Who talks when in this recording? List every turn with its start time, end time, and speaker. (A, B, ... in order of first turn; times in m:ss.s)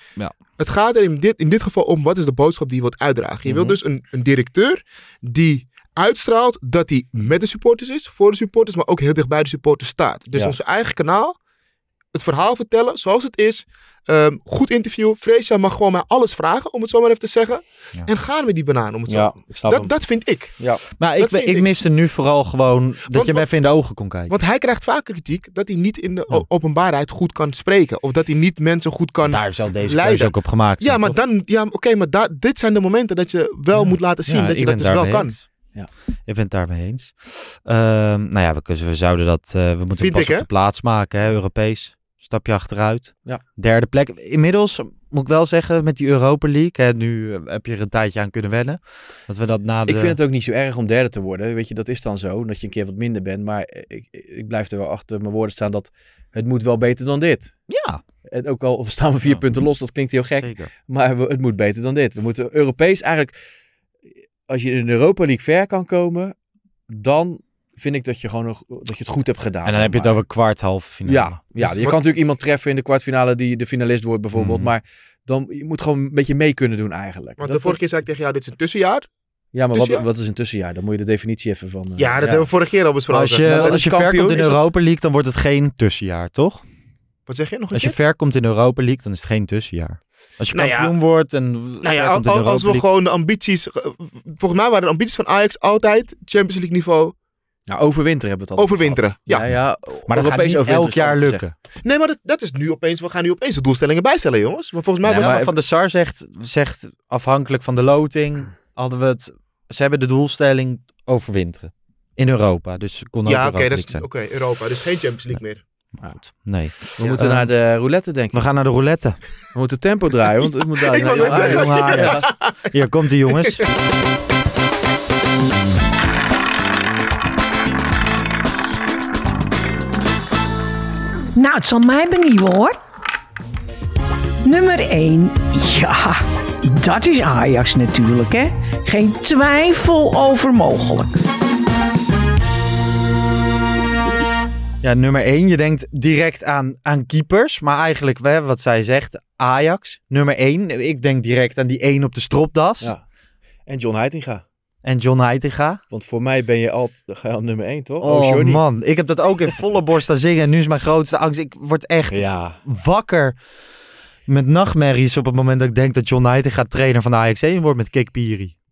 0:00.6-0:11.4 A
0:03.5-0:03.8 B
0:12.1-0:20.6 A
0:19.1-0:20.0 B
0:21.0-0:24.3 C
0:21.2-0:21.7 A
0:23.1-0:23.5 A
0:24.3-0:35.4 A
0:29.2-0:31.2 C
0:33.7-0:35.5 C
0:36.3-0:50.2 C
0:40.0-0:40.5 A
0:49.9-0:57.6 B
0:57.7-0:58.0 C
0:58.3-1:03.4 B
1:00.3-1:00.7 C
1:04.5-1:06.4 B
1:06.9-1:10.2 B
1:09.6-1:11.9 C
1:11.0-1:17.8 B
1:14.4-1:14.7 C
1:17.4-1:19.1 A
1:19.5-1:22.5 B
1:19.7-1:20.0 A
1:22.0-1:23.6 A
1:23.1-1:26.6 C
1:23.4-1:24.7 B
1:27.3-1:28.0 A
1:27.7-1:32.8 C
1:30.5-1:30.9 A
1:31.8-1:37.2 A
1:37.7-1:41.5 B
1:38.6-1:39.5 A
1:40.1-1:41.5 C
1:41.8-1:45.4 A
1:45.0-1:45.5 B
1:45.2-1:54.1 C
1:53.3-1:55.6 A
1:56.0-1:57.5 C
1:57.0-1:58.5 B
1:57.0-1:57.2 A
1:58.3-1:59.2 C
1:59.5-2:02.3 B
2:00.8-2:02.7 A
2:01.2-2:03.6 C
2:11.4-2:12.8 D
2:14.4-2:21.2 D
2:24.8-2:32.9 C
2:33.7-2:34.4 B
2:34.8-2:35.8 C
2:35.9-2:38.6 B
2:38.0-2:43.4 C
2:42.1-2:42.6 B
2:44.3-2:48.6 C